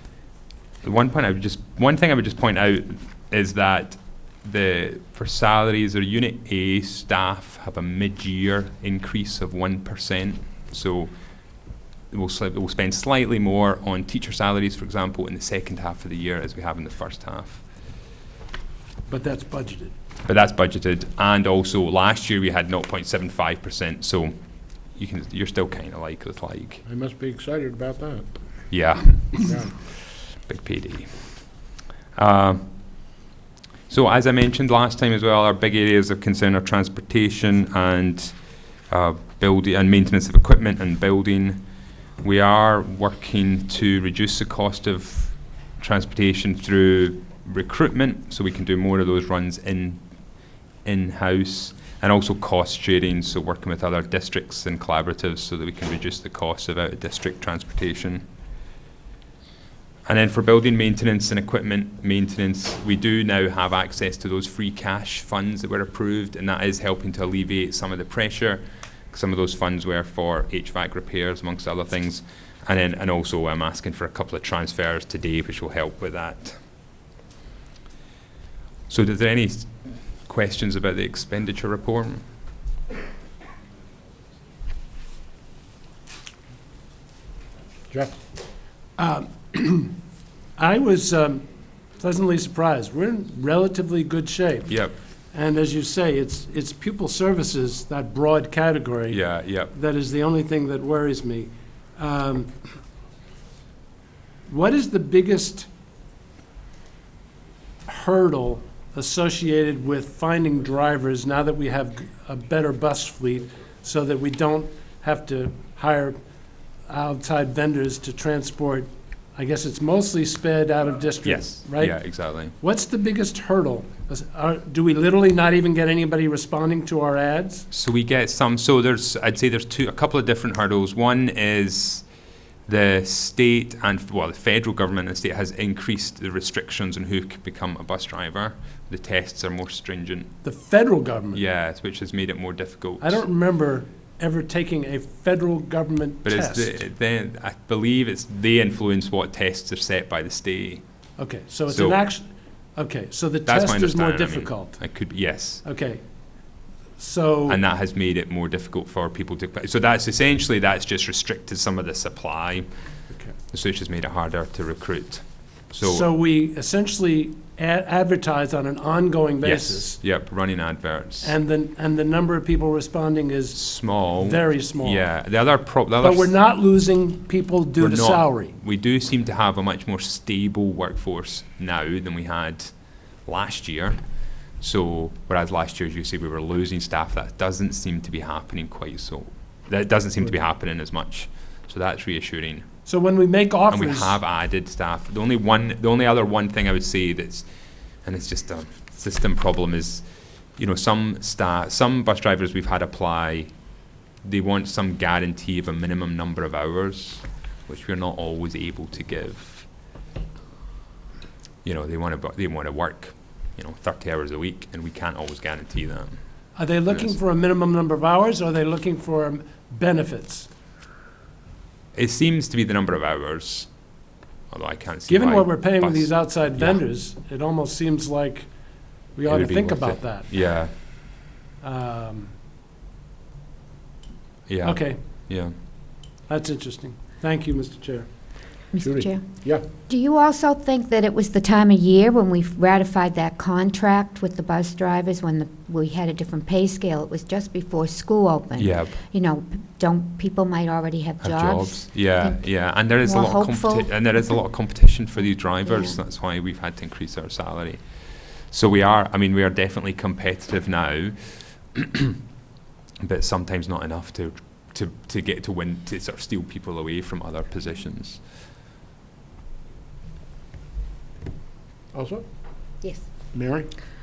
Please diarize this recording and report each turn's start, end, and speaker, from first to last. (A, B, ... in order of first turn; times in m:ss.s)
0:00.8-0:11.1 A
0:12.1-0:17.6 A
0:19.1-0:19.9 B
0:20.2-0:24.4 A
0:25.0-0:26.8 A
0:26.9-0:28.3 C
0:28.7-0:29.6 A
0:29.5-0:29.8 C
0:30.4-0:31.2 A
0:32.2-0:32.7 A
0:33.9-0:38.4 A
0:38.9-0:41.6 A
0:42.2-0:50.0 A
0:50.8-0:58.2 A
1:00.1-1:16.6 A
1:18.9-1:22.2 A
1:29.0-1:30.0 B
1:30.6-1:31.5 B
1:32.0-1:34.7 B
1:34.7-1:35.0 A
1:35.3-1:42.5 B
1:39.1-1:39.7 A
1:44.5-1:45.7 B
1:47.9-1:56.2 B
1:56.9-2:02.0 B
2:01.2-2:02.6 A
2:02.6-2:07.7 B
2:07.7-2:12.0 A
2:12.7-2:20.3 A
2:20.4-2:21.4 B
2:21.3-2:23.2 A
2:23.0-2:26.8 B
2:26.2-2:30.8 A
2:31.2-2:34.8 B
2:31.7-2:32.0 A
2:33.5-2:35.6 A
2:35.6-2:36.0 B
2:37.0-2:37.6 B
2:37.5-2:42.7 A
2:43.5-2:46.1 A
2:45.8-2:50.0 B
2:49.4-2:51.3 A
2:51.2-2:55.0 B
2:53.5-2:56.4 A
2:56.0-2:58.5 B
2:57.8-3:02.7 A
3:03.2-3:04.0 A
3:04.6-3:12.7 A
3:12.9-3:14.2 B
3:13.7-3:17.5 A
3:18.0-3:23.5 A
3:24.2-3:29.7 A
3:31.6-3:36.2 A
3:36.6-3:40.5 B
3:36.9-3:37.1 A
3:42.0-3:43.7 A
3:44.5-3:46.8 A
3:45.1-3:48.5 B
3:49.2-3:50.3 B
3:49.3-3:50.7 A
3:51.6-3:52.3 B
3:54.5-3:55.5 A
3:54.6-3:55.0 B
3:56.3-3:58.1 B
3:58.7-4:14.4 D
3:58.8-3:59.6 C
4:08.6-4:09.0 A
4:11.2-4:22.2 A
4:15.7-4:15.9 D
4:23.0-4:28.2 A
4:31.9-4:32.2 C
4:33.3-4:33.7 C